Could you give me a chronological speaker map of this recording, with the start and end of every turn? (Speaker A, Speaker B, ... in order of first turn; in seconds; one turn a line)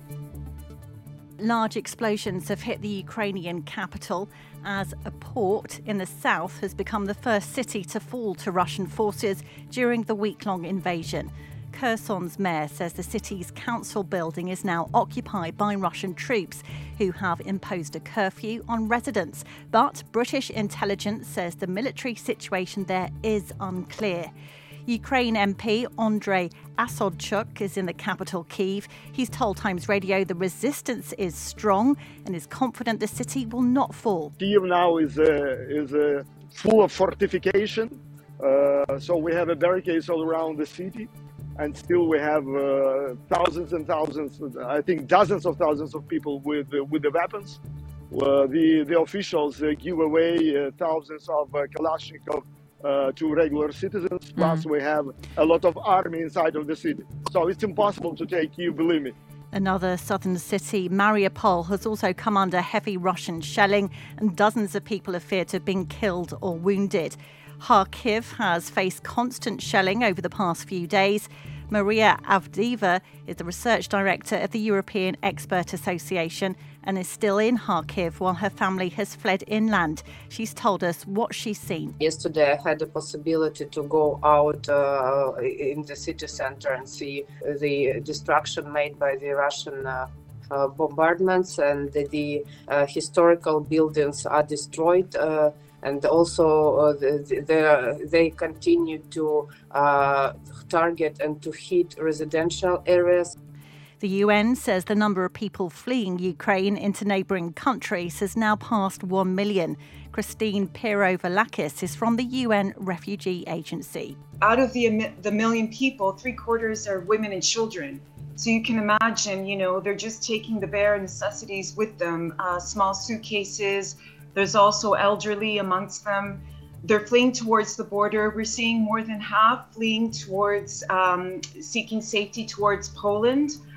Speaker A: 1.4-24.3
Speaker A: 24.9-34.3
Speaker B: 34.4-47.6
Speaker B: 48.1-59.1
Speaker A: 59.5-81.9
Speaker C: 82.0-103.3
Speaker A: 104.0-114.2
Speaker D: 114.4-133.6